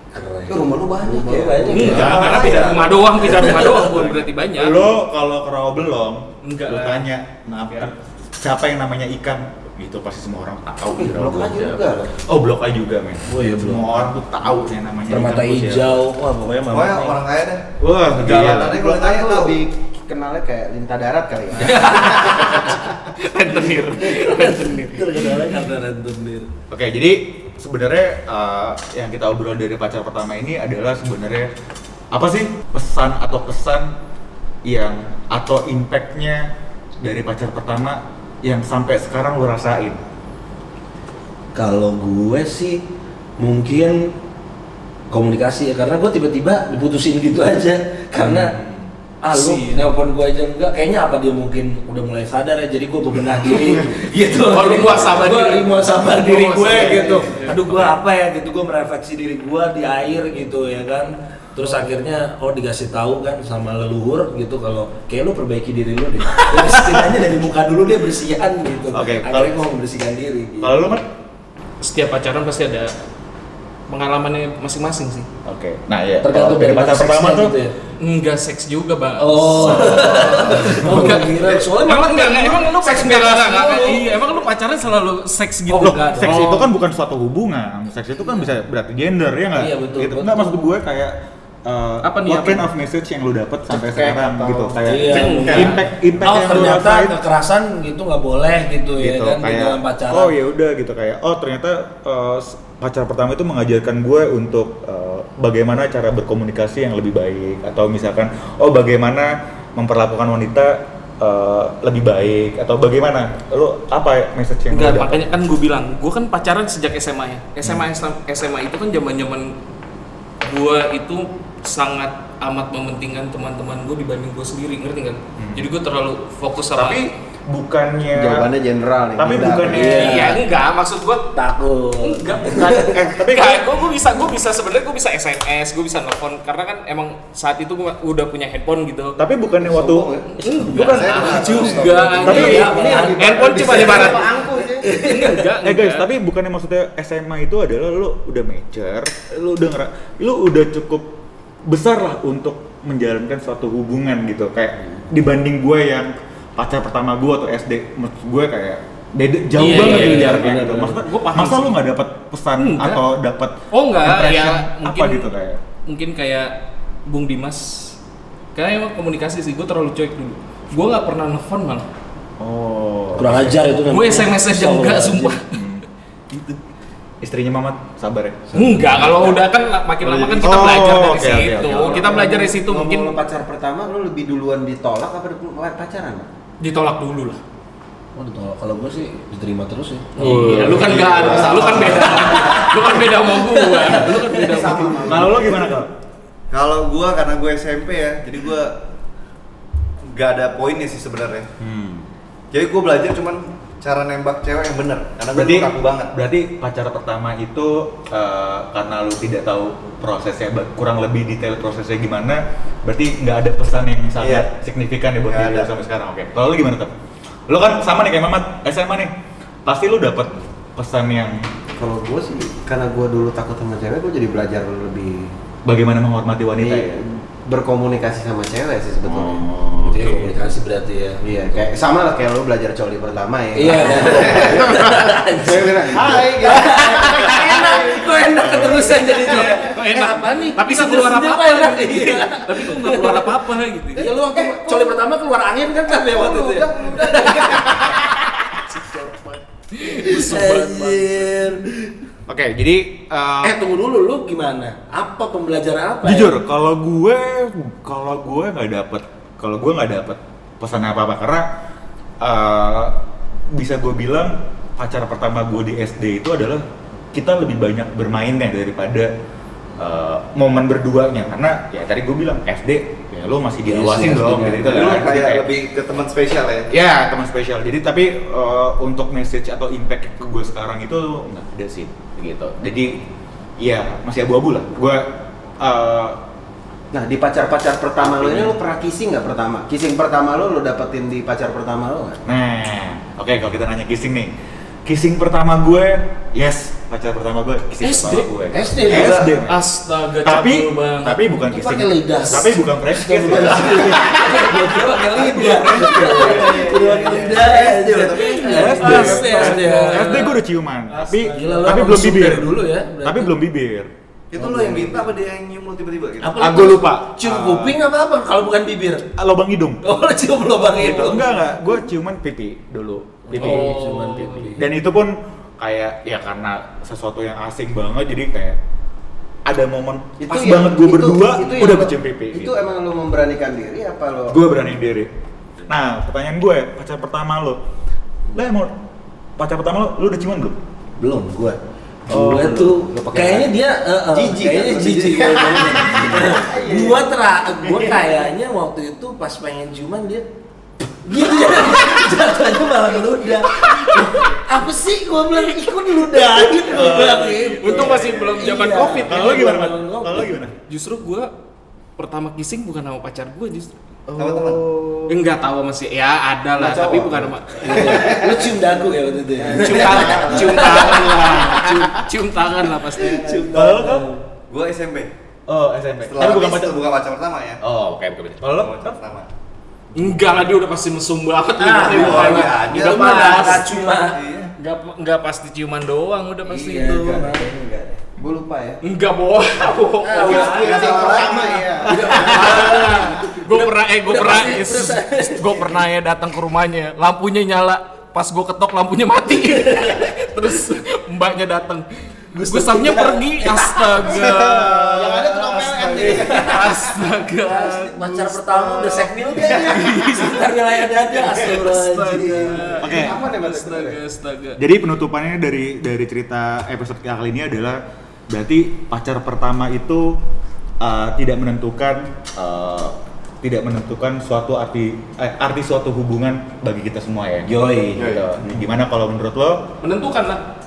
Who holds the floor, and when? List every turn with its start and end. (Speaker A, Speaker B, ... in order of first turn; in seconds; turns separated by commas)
Speaker A: 0.1-2.7, Speaker B: 0.5-3.0, Speaker C: 1.7-4.9, Speaker D: 1.8-16.0, Speaker E: 2.1-2.7, Speaker C: 6.4-7.1, Speaker B: 10.9-12.1, Speaker A: 13.3-14.0, Speaker A: 15.1-17.2, Speaker E: 16.7-19.6, Speaker D: 17.8-18.9, Speaker B: 18.2-22.9, Speaker A: 21.6-22.5, Speaker C: 21.9-25.5, Speaker A: 24.0-26.5, Speaker D: 26.7-31.5, Speaker D: 32.1-34.0, Speaker D: 34.6-36.5, Speaker D: 37.0-40.0, Speaker A: 41.5-42.8, Speaker A: 43.4-44.1, Speaker A: 45.1-48.5, Speaker D: 48.1-48.9, Speaker A: 49.2-71.0, Speaker C: 49.3-49.9, Speaker C: 54.4-57.9, Speaker D: 66.5-67.2, Speaker D: 68.9-69.6, Speaker D: 70.6-71.0, Speaker C: 71.8-72.9, Speaker C: 73.9-75.3, Speaker D: 75.4-77.5, Speaker A: 76.2-77.7, Speaker C: 78.0-86.6, Speaker A: 79.2-84.3, Speaker D: 79.6-80.8, Speaker A: 85.7-86.6, Speaker D: 85.8-91.1, Speaker A: 89.6-90.7, Speaker D: 91.6-97.2, Speaker C: 92.0-92.7, Speaker B: 94.0-94.8, Speaker A: 94.8-100.3, Speaker C: 95.0-95.8, Speaker D: 99.0-115.3, Speaker C: 114.7-119.5, Speaker C: 120.4-127.0, Speaker D: 125.4-125.7, Speaker D: 126.7-128.5, Speaker B: 128.1-130.0, Speaker D: 129.2-130.4, Speaker A: 129.7-130.4, Speaker C: 129.7-131.3, Speaker A: 131.3-132.9, Speaker C: 132.0-139.2, Speaker D: 132.6-133.8, Speaker D: 139.2-140.1, Speaker E: 139.7-141.7, Speaker C: 140.4-146.1, Speaker A: 140.4-144.1, Speaker D: 140.7-141.3, Speaker B: 142.2-144.9, Speaker D: 142.2-142.9, Speaker A: 144.8-145.5, Speaker D: 145.6-151.1, Speaker D: 151.7-165.6, Speaker C: 159.6-161.8, Speaker A: 159.6-161.0, Speaker C: 162.6-163.0, Speaker C: 163.7-165.3, Speaker C: 165.9-166.5, Speaker C: 167.1-167.9, Speaker C: 168.5-171.9, Speaker D: 172.4-173.6, Speaker A: 173.2-175.4, Speaker C: 173.8-175.6, Speaker D: 175.5-176.6, Speaker D: 177.2-179.4, Speaker A: 178.5-179.3, Speaker C: 178.5-183.2, Speaker E: 180.0-180.5, Speaker D: 180.4-182.1, Speaker B: 181.7-186.3, Speaker C: 186.6-187.4, Speaker A: 188.2-195.2, Speaker C: 190.2-195.2, Speaker D: 190.2-192.4, Speaker E: 191.0-191.9, Speaker B: 191.3-191.8, Speaker B: 194.3-195.6, Speaker D: 195.1-195.9, Speaker E: 196.5-198.7, Speaker E: 200.1-201.5, Speaker D: 201.6-202.1, Speaker E: 202.5-206.1, Speaker D: 205.3-216.9, Speaker E: 214.2-214.4, Speaker E: 215.3-215.7, Speaker D: 217.5-219.1, Speaker D: 219.7-221.5, Speaker B: 221.8-225.3, Speaker D: 225.6-227.0, Speaker B: 226.6-229.4, Speaker D: 229.0-230.3, Speaker A: 229.8-231.2, Speaker B: 231.2-239.6, Speaker A: 233.5-243.4, Speaker C: 238.9-244.1, Speaker A: 243.9-251.9, Speaker B: 243.9-245.0, Speaker B: 245.9-248.0, Speaker C: 249.7-251.6, Speaker D: 252.3-253.6, Speaker A: 253.4-256.4, Speaker D: 256.0-261.4, Speaker D: 262.2-262.9, Speaker D: 263.5-269.1, Speaker D: 269.8-275.5, Speaker A: 273.6-275.0, Speaker E: 274.6-276.7, Speaker D: 276.7-283.0, Speaker D: 283.6-285.1, Speaker D: 285.6-286.2, Speaker B: 286.9-292.2, Speaker D: 288.0-288.5, Speaker D: 292.2-294.3, Speaker D: 294.9-299.6, Speaker C: 297.8-298.3, Speaker A: 298.5-299.3, Speaker C: 298.9-301.2, Speaker D: 300.2-306.7, Speaker A: 301.5-310.3, Speaker E: 305.9-308.7, Speaker B: 306.1-307.6, Speaker C: 308.0-310.3, Speaker D: 308.4-313.9, Speaker C: 310.9-311.8, Speaker A: 311.3-313.3, Speaker E: 314.3-316.6, Speaker A: 314.4-315.1, Speaker A: 316.2-319.0, Speaker D: 316.4-317.8, Speaker D: 319.1-319.9, Speaker A: 319.8-321.3, Speaker D: 320.7-323.7, Speaker A: 323.3-324.7, Speaker C: 323.3-324.6, Speaker D: 324.6-328.6, Speaker D: 329.5-332.5, Speaker B: 330.2-334.4, Speaker D: 334.3-335.1, Speaker D: 335.7-337.6, Speaker D: 338.3-338.7, Speaker D: 339.4-340.6, Speaker A: 341.0-350.2, Speaker D: 342.1-342.5, Speaker B: 342.2-343.5, Speaker B: 344.1-347.1, Speaker D: 345.9-346.4, Speaker B: 347.6-348.0, Speaker A: 351.0-360.4, Speaker C: 353.7-354.0, Speaker D: 356.4-358.1, Speaker C: 357.6-359.5, Speaker D: 359.0-360.6, Speaker C: 360.7-361.3, Speaker C: 362.0-363.7, Speaker E: 364.1-364.7, Speaker D: 364.3-364.6, Speaker C: 365.1-368.0, Speaker E: 366.6-368.4, Speaker B: 366.6-367.1, Speaker A: 367.6-371.4, Speaker B: 369.4-371.0, Speaker C: 369.5-373.5, Speaker A: 372.9-374.2, Speaker D: 373.5-374.1, Speaker E: 374.5-375.1, Speaker D: 375.5-376.8, Speaker E: 376.0-377.6, Speaker D: 377.6-379.0, Speaker E: 378.4-379.3, Speaker C: 379.9-384.0, Speaker A: 381.6-384.2, Speaker E: 381.9-384.5, Speaker C: 384.6-387.3, Speaker A: 386.5-388.0, Speaker B: 386.8-388.8, Speaker C: 388.8-391.1, Speaker A: 390.0-395.8, Speaker B: 390.1-392.1, Speaker D: 390.3-392.5, Speaker E: 391.2-391.5, Speaker C: 391.9-401.9, Speaker A: 399.3-400.1, Speaker A: 402.3-404.0, Speaker C: 402.4-405.2, Speaker B: 404.1-407.0, Speaker D: 404.1-406.1, Speaker C: 405.9-410.5, Speaker A: 405.9-406.9, Speaker A: 407.4-412.8, Speaker C: 411.1-414.6, Speaker B: 412.3-414.0, Speaker D: 412.8-413.2, Speaker D: 414.6-420.2, Speaker D: 420.8-429.7, Speaker A: 427.4-428.2, Speaker E: 428.0-428.4, Speaker C: 429.8-430.4